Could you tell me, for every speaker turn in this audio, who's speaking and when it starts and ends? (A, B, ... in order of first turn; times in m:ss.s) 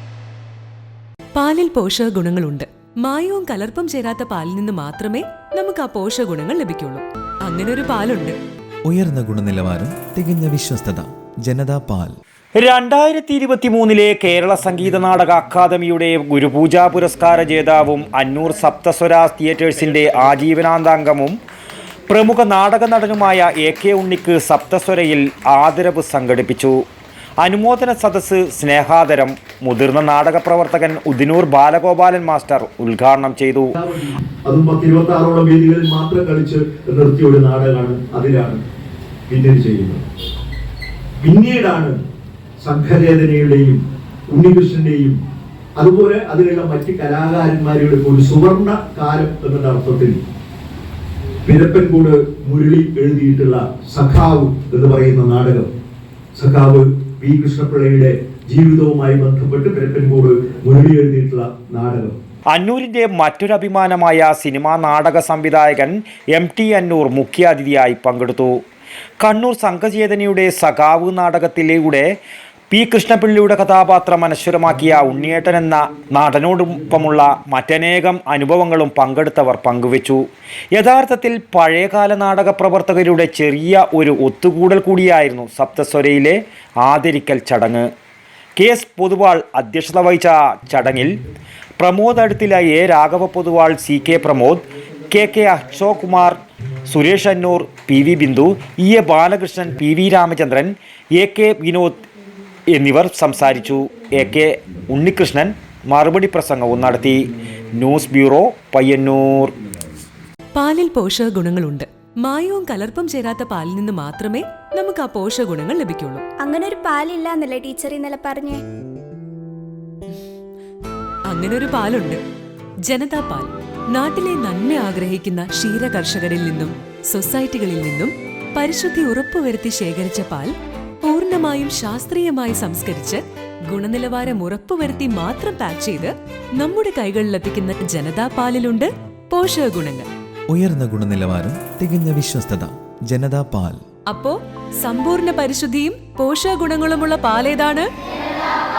0:01.4-0:08.4 A
0:08.9-0:12.2 B
0:12.6-0:21.4 C
0:22.1-0:26.8 C
0:27.4-0:33.7 C
0:33.8-0:38.6 D
0:39.3-0:40.0 D
0:41.2-0:42.0 D
0:42.6-0:45.2 D
0:45.8-0:50.2 D
0:51.5-0:55.7 D
0:56.4-1:02.2 D
1:02.5-1:08.6 C
1:09.2-1:12.1 C
1:12.7-1:27.9 C
1:28.6-1:31.2 C
1:31.8-1:42.0 C
1:42.7-1:47.2 C
1:47.8-1:49.6 C
1:50.6-1:56.2 A
1:56.4-1:58.6 E
2:01.3-2:02.2 A
2:02.9-2:10.5 A
2:11.0-2:20.1 A
2:20.5-2:23.8 B
2:24.1-2:27.9 A